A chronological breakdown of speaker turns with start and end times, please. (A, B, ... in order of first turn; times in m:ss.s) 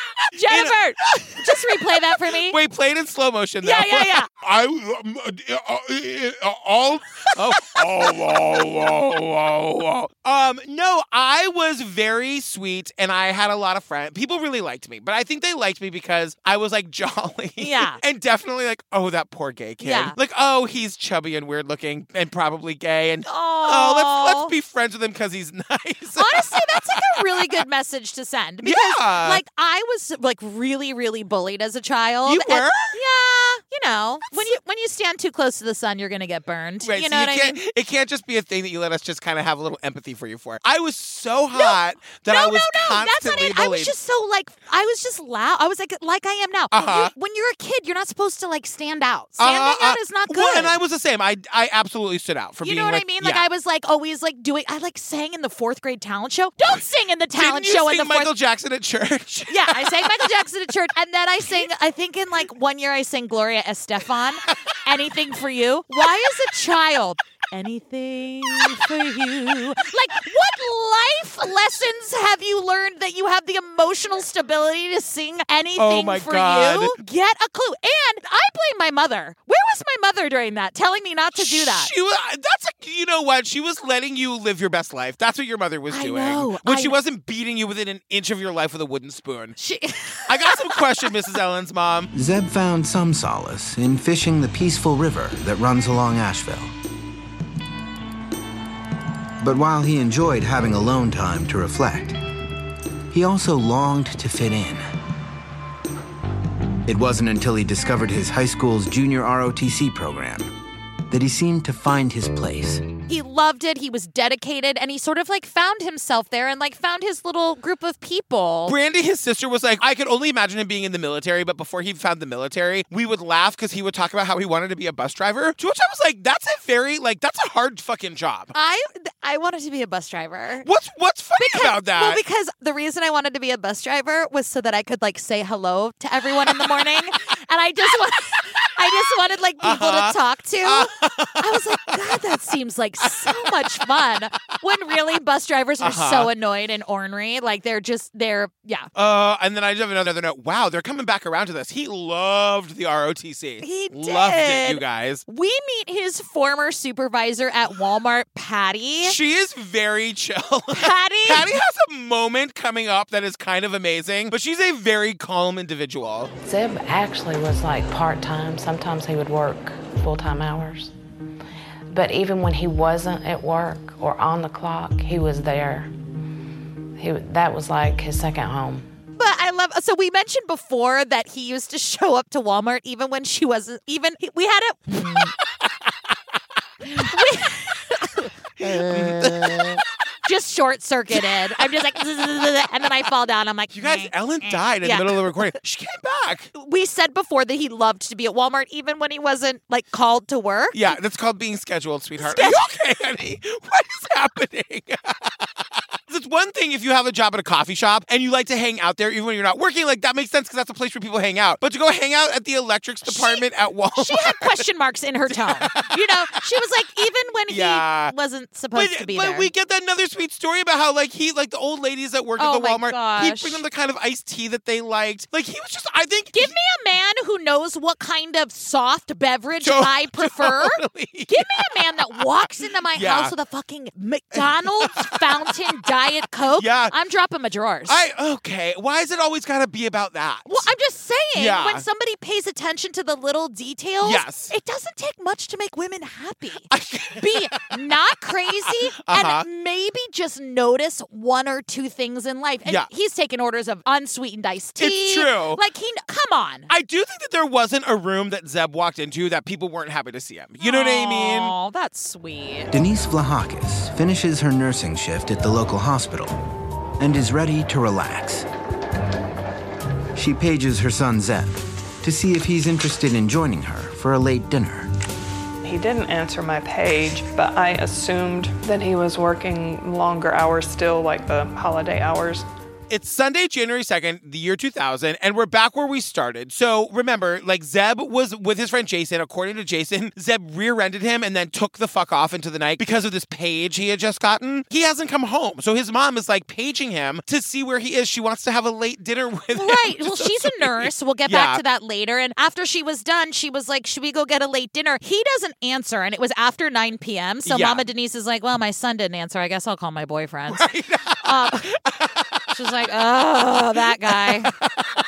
0:00.3-0:02.6 A
0:00.4-0:27.6 B
0:03.6-0:04.3 A
0:07.6-0:07.9 A
0:17.6-0:18.0 A
0:19.8-0:20.2 A
0:23.2-0:24.5 A
0:26.2-0:37.6 A
0:28.6-0:29.4 B
0:32.2-0:33.0 B
0:36.8-0:43.9 B
0:41.5-0:50.7 A
0:46.7-0:47.1 B
0:49.4-0:53.4 B
0:52.6-0:58.3 A
0:57.4-1:00.3 B
0:59.5-1:21.9 A
1:15.8-1:17.0 B
1:21.3-1:29.6 B
1:25.9-1:27.0 A
1:29.6-1:31.2 A
1:30.3-1:32.1 B
1:32.1-1:36.7 C
1:39.4-1:42.2 C
1:43.1-1:44.8 C
1:46.8-1:50.5 C
1:51.1-1:52.8 C
1:53.1-1:58.8 A
1:58.6-2:08.5 B
2:08.5-2:10.7 A
2:10.6-2:12.2 B
2:11.4-2:28.9 A
2:19.6-2:22.2 B
2:23.0-2:23.8 B
2:25.8-2:26.3 B
2:28.9-2:35.2 B
2:33.6-2:39.2 A
2:39.0-2:46.3 B
2:40.7-2:41.5 A
2:46.4-2:50.9 D
2:51.9-2:55.9 D
2:57.0-2:58.9 D
2:59.2-3:05.3 A
3:06.8-3:15.5 A
3:08.6-3:09.8 B
3:13.7-3:16.5 B
3:16.5-3:21.0 A
3:20.7-3:25.4 B
3:22.2-3:22.6 A
3:26.1-3:34.6 B
3:33.0-3:39.5 A
3:35.3-3:36.4 B
3:37.5-3:38.1 B
3:38.7-3:46.5 B
3:42.4-3:43.6 A
3:46.3-3:58.0 A
3:49.6-3:53.3 B
3:54.3-3:55.9 B
3:56.5-3:56.9 B
3:57.9-4:00.7 B
4:00.5-4:16.7 A
4:01.3-4:01.8 B
4:04.0-4:04.5 B
4:06.7-4:07.8 B
4:08.6-4:09.4 B
4:14.8-4:15.6 B
4:16.7-4:21.5 B
4:20.6-4:22.7 A
4:22.7-4:26.4 C
4:27.0-4:28.5 C
4:30.1-4:34.9 C
4:35.6-4:42.4 E
4:42.9-5:01.6 B
4:59.5-5:10.7 A
5:07.4-5:07.8 B
5:10.5-5:12.5 B
5:11.2-5:11.8 A
5:12.5-5:14.5 A
5:13.8-5:14.9 B